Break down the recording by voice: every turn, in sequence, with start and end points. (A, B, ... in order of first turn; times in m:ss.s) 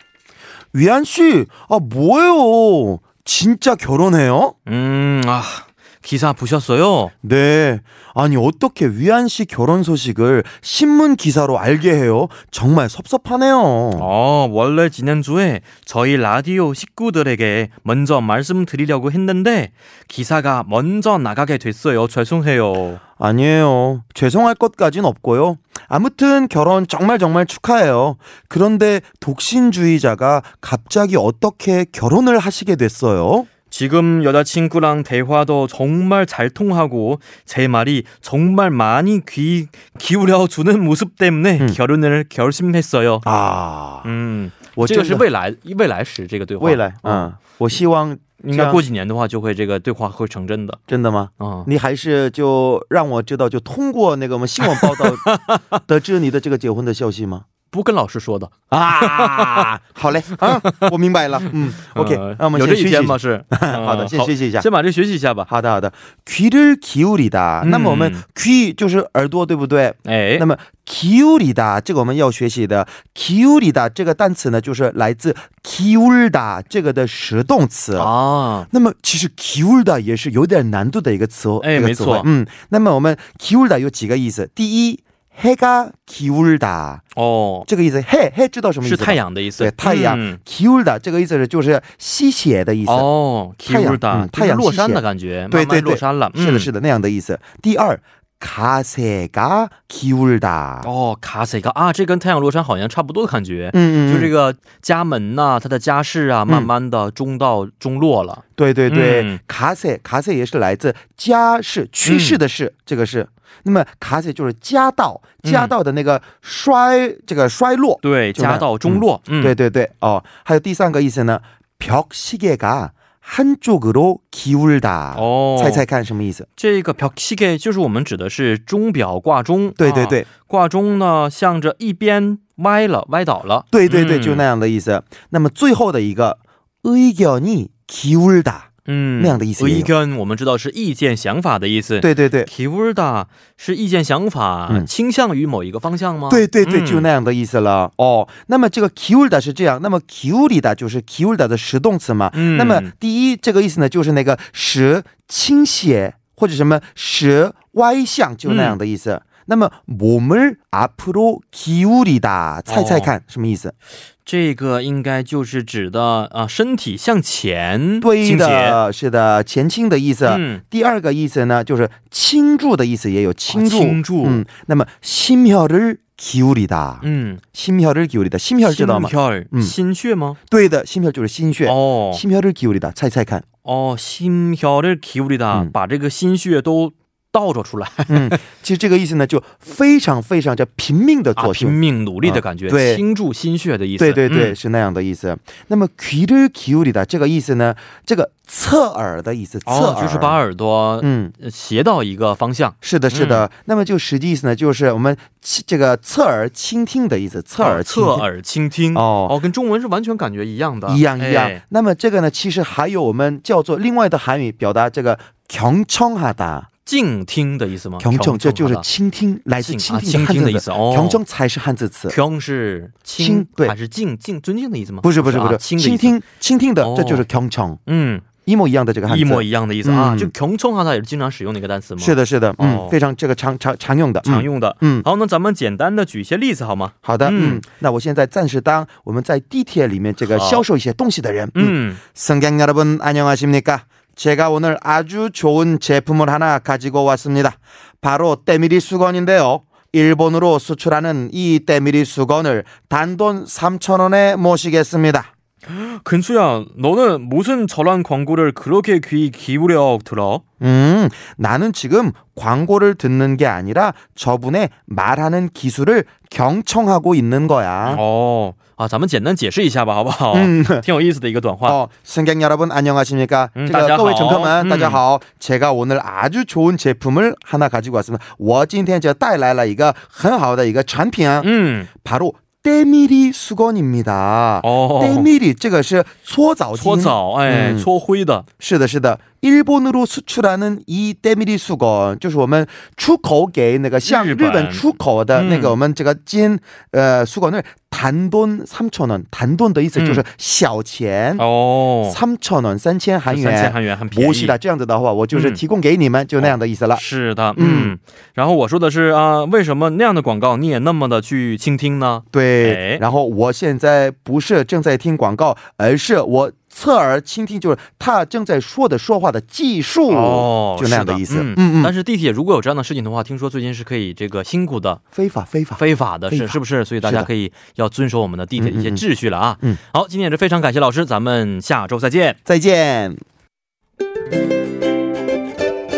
0:00.7-0:04.6 A
0:04.7-0:07.1 B
0:07.2-0:14.1 A
0:14.0-0:23.0 B
0:23.2-0:33.5 A
0:33.7-0:43.2 B
0:43.2-0:44.1 A
0:44.0-0:47.3 B
0:44.8-0:45.2 A
0:46.6-0:48.8 A
0:48.4-0:50.8 B
0:50.9-0:57.4 A
0:51.4-0:51.7 B
0:54.6-0:55.8 B
0:57.7-0:59.7 B
0:58.7-1:04.7 A
1:00.3-1:00.9 B
1:01.4-1:05.5 B
1:05.5-1:18.1 A
1:07.6-1:08.2 B
1:10.0-1:10.5 B
1:18.0-1:18.7 B
1:18.7-1:27.0 A
1:21.6-1:22.3 B
1:27.2-1:27.7 B
1:27.7-1:33.1 A
1:28.8-1:30.4 B
1:32.9-1:36.7 B
1:33.7-1:40.9 A
1:40.8-1:49.4 B
1:43.7-1:44.3 A
1:48.6-2:06.5 A
1:52.0-1:52.4 B
1:55.4-1:55.7 B
1:58.0-1:59.6 B
2:05.1-2:05.8 B
2:06.6-2:14.4 B
2:09.8-2:10.3 A
2:13.7-2:18.7 A
2:18.9-2:27.1 B
2:19.2-2:19.9 A
2:22.0-2:22.5 A
2:26.3-2:43.7 A
2:32.3-2:32.9 B
2:38.4-2:38.8 B
2:42.7-2:43.1 B
2:44.2-2:48.8 B
2:48.0-2:59.8 A
2:50.3-2:50.6 B
2:53.5-2:54.4 B
2:57.0-2:57.4 B
2:58.6-3:00.4 B
3:00.5-3:03.4 A
3:01.6-3:02.2 B
3:03.6-3:08.4 B
3:08.1-3:13.0 A
3:11.4-3:14.6 B
3:14.0-3:20.4 A
3:19.7-3:23.5 B
3:21.0-3:21.3 A
3:22.8-3:28.3 A
3:27.6-3:31.6 B
3:28.9-3:29.4 A
3:30.9-3:36.7 A
3:36.9-3:38.9 B
3:38.0-3:42.2 A
3:39.6-3:41.2 B
3:42.1-3:46.2 B
3:43.2-3:43.8 A
3:45.0-3:47.8 A
3:46.8-3:47.2 B
3:47.9-3:48.2 B
3:48.5-3:50.3 A
3:49.1-3:52.9 B
3:52.0-3:55.1 A
3:54.2-3:57.6 B
3:57.0-4:15.3 A
4:00.2-4:00.6 B
4:01.6-4:02.0 B
4:15.7-4:20.4 B
4:20.6-4:28.0 A
4:27.8-4:31.8 B
4:30.3-4:30.8 A
4:31.6-4:41.5 A
4:33.6-4:35.0 B
4:41.4-4:41.9 B
4:42.0-4:47.9 A
4:44.6-4:45.3 B
4:46.8-4:48.4 B
4:48.6-5:01.4 A
4:54.0-4:55.8 B
5:00.0-5:00.2 B
5:01.4-5:02.2 B
5:02.0-5:07.0 A
5:03.3-5:04.6 B
5:05.3-5:05.6 B
5:06.4-5:13.0 B
5:07.6-5:08.0 A
5:12.3-5:21.9 A
5:20.1-5:25.0 B
5:25.1-5:27.3 A
5:25.8-5:32.4 B
5:28.6-5:29.0 A
5:32.5-5:33.2 A